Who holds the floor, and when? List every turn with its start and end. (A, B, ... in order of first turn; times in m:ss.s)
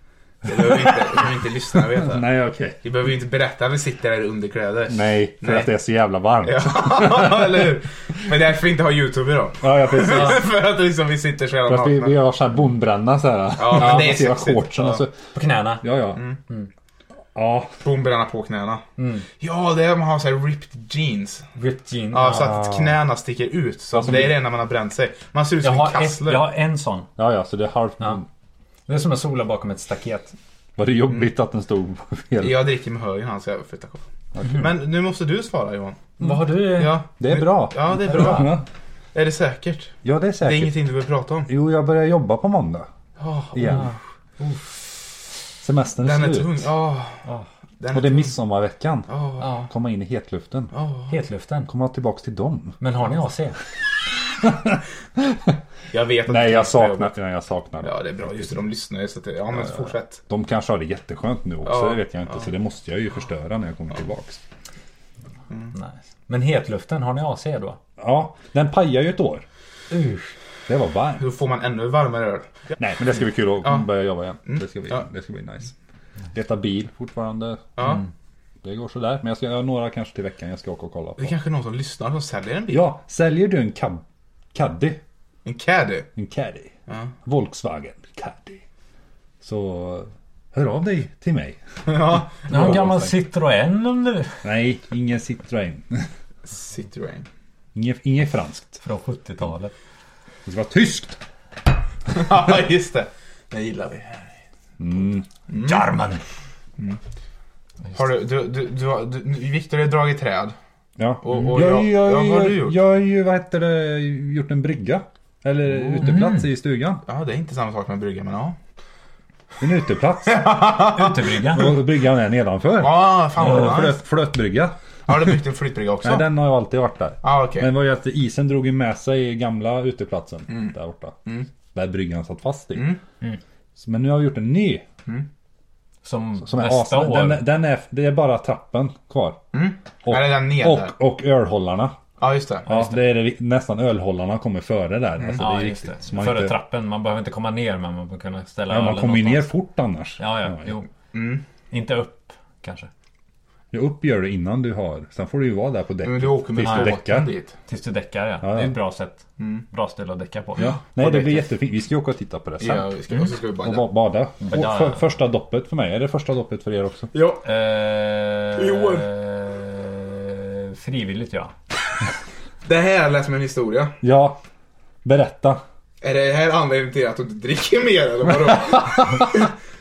0:00.4-0:02.3 A
0:00.5-0:01.3 B
0:01.9-0:02.8 B
0:02.8-0:05.7 A
0:04.9-0:07.7 B
0:06.4-0:12.2 A
0:09.6-0:10.4 B
0:10.1-0:10.4 C
0:11.7-0:15.1 B
0:13.6-0:15.0 A
0:13.8-0:14.1 C
0:15.3-0:15.8 C
0:15.8-0:16.2 B
0:17.4-0:17.8 B
0:17.8-0:18.8 A
0:19.0-0:19.3 C
0:19.4-0:21.5 A
0:21.6-0:22.8 C
0:22.1-0:26.5 A
0:23.9-0:24.4 B
0:25.6-0:27.1 C
0:27.2-0:28.2 B
0:28.9-0:30.3 C
0:30.8-0:32.6 B
0:32.4-0:38.6 A
0:36.2-0:37.0 C
0:37.2-0:38.6 B
0:38.1-0:38.6 C
0:39.1-0:41.5 A
0:40.0-0:40.8 B
0:41.5-0:42.9 B
0:43.2-0:43.9 A
0:43.5-0:43.9 B
0:43.6-0:44.8 C
0:45.6-0:46.7 B
0:46.0-0:47.2 A
0:47.8-0:48.3 A
0:47.9-0:49.1 B
0:49.1-0:49.6 A
0:49.4-0:49.7 C
0:49.7-0:50.7 B
0:50.7-0:51.1 A
0:51.1-0:51.7 C
0:51.7-0:52.8 B
0:52.8-0:53.6 C
0:54.4-0:55.6 B
0:55.9-0:57.1 A
0:56.3-0:58.5 B
0:57.8-1:00.2 A
1:00.3-1:04.4 B
1:01.6-1:02.4 A
1:05.7-1:07.8 C
1:08.0-1:09.4 B
1:09.9-1:10.3 C
1:10.7-1:11.2 B
1:11.2-1:12.5 A
1:12.8-1:15.7 B
1:14.4-1:15.1 A
1:16.3-1:17.7 B
1:17.8-1:18.0 A
1:18.6-1:21.4 B
1:21.2-1:22.9 A
1:22.7-1:25.0 B
1:25.4-1:26.1 A
1:26.2-1:26.7 B
1:26.9-1:27.1 A
1:27.2-1:28.6 B
1:29.4-1:31.6 B
1:31.9-1:33.1 A
1:32.5-1:34.4 C
1:32.5-1:32.8 B
1:34.4-1:36.1 B
1:36.4-1:37.3 A
1:37.8-1:38.8 B
1:38.8-1:39.7 C
1:40.5-1:41.2 B
1:42.1-1:44.3 A
1:44.8-1:45.3 B
1:45.5-1:45.9 A
1:45.6-1:46.2 C
1:47.9-1:50.6 A
1:51.0-1:57.0 B
1:51.2-1:52.8 A
1:55.9-1:56.4 C
1:57.1-1:58.6 A
1:59.6-2:00.5 B
2:00.3-2:01.2 A
2:00.9-2:01.8 C
2:01.4-2:04.8 B
2:02.8-2:04.0 A
2:05.1-2:06.3 A
2:06.0-2:11.2 B
2:07.2-2:07.7 A
2:10.5-2:10.7 A
2:11.7-2:12.9 B
2:12.8-2:13.0 A
2:13.8-2:14.8 B
2:16.0-2:17.5 C
2:16.4-2:19.4 B
2:19.5-2:20.9 A
2:20.0-2:22.0 B
2:22.2-2:22.8 A
2:22.7-2:26.6 B
2:25.2-2:25.5 A
2:25.3-2:29.5 C
2:28.7-2:30.7 B
2:30.2-2:30.9 C
2:31.1-2:31.4 A
2:31.7-2:32.9 C
2:33.7-2:37.3 B
2:36.0-2:37.5 A
2:36.6-2:37.0 C
2:37.7-2:40.7 C
2:38.4-2:38.8 B
2:39.4-2:39.6 A
2:40.6-2:42.9 B
2:40.6-2:41.5 A
2:42.6-2:43.9 A
2:43.6-2:47.1 B
2:44.4-2:45.0 C
2:47.1-2:47.4 A
2:47.4-2:51.5 C
2:48.6-2:49.1 A
2:52.6-2:54.0 A
2:54.0-2:54.4 B
2:55.0-2:55.6 B
2:56.0-2:59.5 A
2:58.3-2:59.3 B